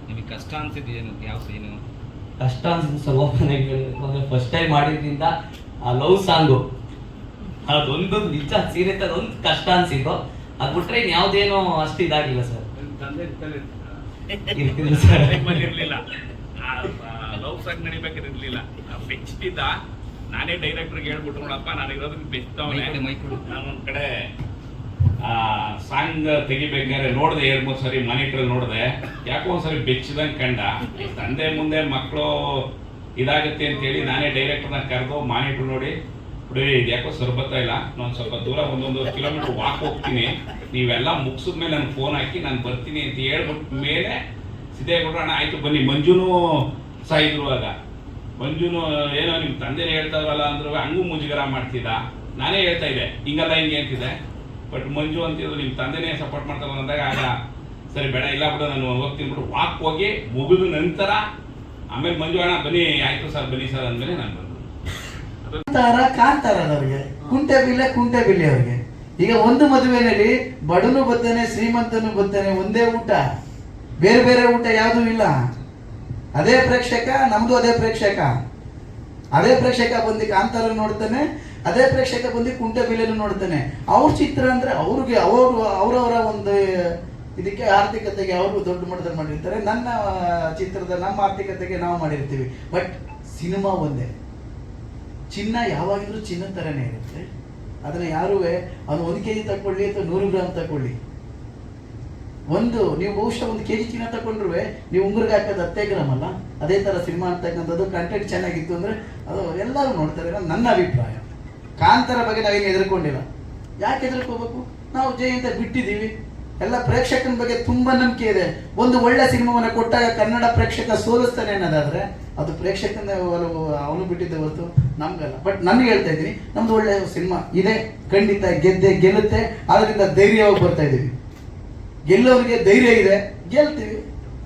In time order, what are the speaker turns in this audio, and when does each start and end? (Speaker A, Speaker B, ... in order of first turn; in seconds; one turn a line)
Speaker A: 0.1-1.8
Speaker B: 2.4-5.3
Speaker B: 5.9-6.6
Speaker B: 7.7-12.7
Speaker C: 12.8-13.8
Speaker B: 14.6-15.7
Speaker C: 14.7-16.0
Speaker C: 16.6-19.7
Speaker C: 20.3-24.0
Speaker A: 22.7-23.4
Speaker C: 25.2-32.6
Speaker C: 33.2-35.9
Speaker C: 36.5-44.2
Speaker C: 44.7-46.3
Speaker C: 47.1-47.7
Speaker C: 48.4-54.1
Speaker C: 54.7-57.3
Speaker C: 57.9-61.2
Speaker C: 61.9-64.7
Speaker D: 65.7-73.2
Speaker D: 74.0-75.3
Speaker D: 76.4-78.3
Speaker D: 79.4-86.6
Speaker D: 87.4-94.1
Speaker D: 95.3-97.2
Speaker D: 97.8-101.0
Speaker D: 102.5-111.3
Speaker D: 111.8-113.2
Speaker D: 113.8-131.1
Speaker D: 132.1-134.0